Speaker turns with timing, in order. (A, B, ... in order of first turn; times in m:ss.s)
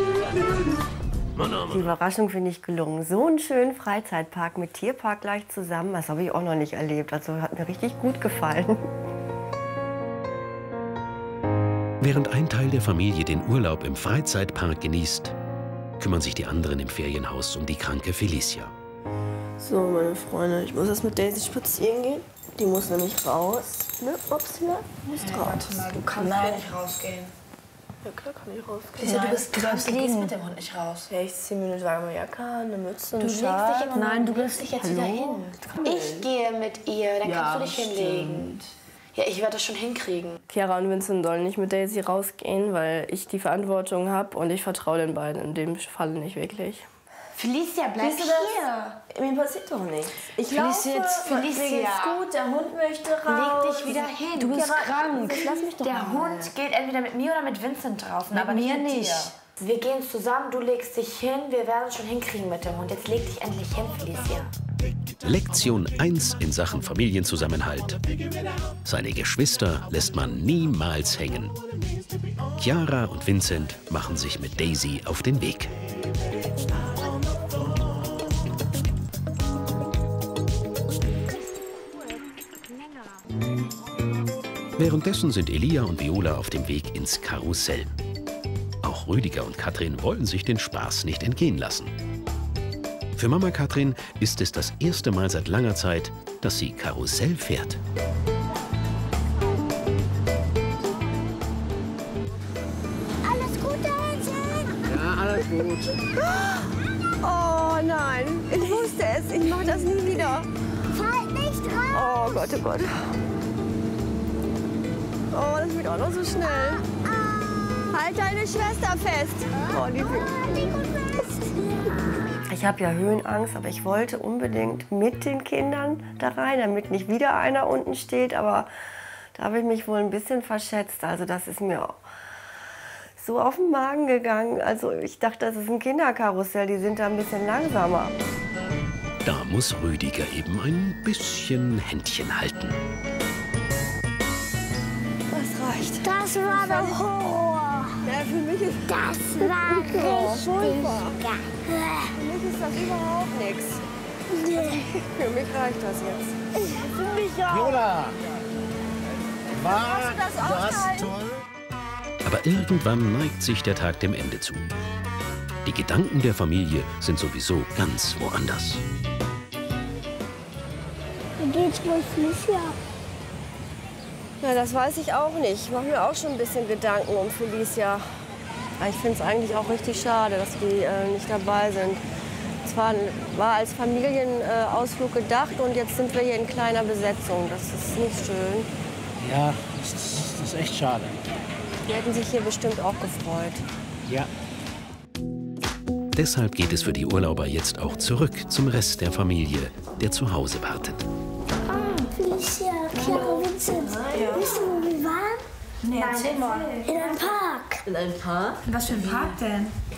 0:01.6-0:08.8 A
0:12.0-0:15.3 B
0:16.0-0:18.7 B
0:19.6-0:26.7 C
0:25.2-0:27.3 D
0:28.0-0:30.4 C
0:29.0-0:31.1 D
0:31.1-0:36.3 C
0:33.2-0:38.5 D
0:37.2-0:38.6 C
0:39.2-0:40.4 D
0:40.5-0:46.9 C
0:47.4-0:49.0 D
0:48.0-0:56.5 C
0:50.5-0:52.2 D
0:53.3-1:04.5 D
0:58.3-0:59.3 C
1:05.2-1:08.0 B
1:08.8-1:11.6 B
1:12.6-1:15.7 B
1:24.8-1:27.9 B
1:28.8-1:31.9 B
1:33.2-1:37.8 B
1:43.2-1:44.8 E
1:44.9-1:46.0 F
1:46.2-1:46.6 A
1:47.2-1:50.5 A
1:50.9-1:52.6 E
1:51.9-1:53.1 A
1:55.3-1:56.9 A
1:56.8-1:57.6 E
1:57.9-2:00.7 A
1:59.6-2:02.2 E
2:02.5-2:08.7 A
2:09.4-2:12.0 A
2:13.2-2:18.2 A
2:19.2-2:22.8 B
2:25.3-2:27.0 A
2:26.0-2:28.0 E
2:28.0-2:31.2 A
2:28.9-2:32.2 E
2:32.1-2:33.8 A
2:34.3-2:34.9 E
2:34.5-2:37.6 A
2:36.6-2:37.6 E
2:37.5-2:38.2 F
2:39.5-2:41.4 F
2:39.6-2:41.1 A
2:42.2-2:44.7 B
2:45.6-2:48.8 B
2:51.4-2:52.8 E
2:54.4-2:58.0 A
2:58.8-3:02.0 A
3:02.6-3:08.7 A
3:09.2-3:11.2 F
3:11.8-3:13.6 A
3:16.2-3:21.0 B
3:21.8-3:25.4 E
3:21.8-3:22.1 D
3:23.1-3:24.5 C
3:25.9-3:27.0 D
3:26.8-3:27.8 E
3:28.7-3:29.7 D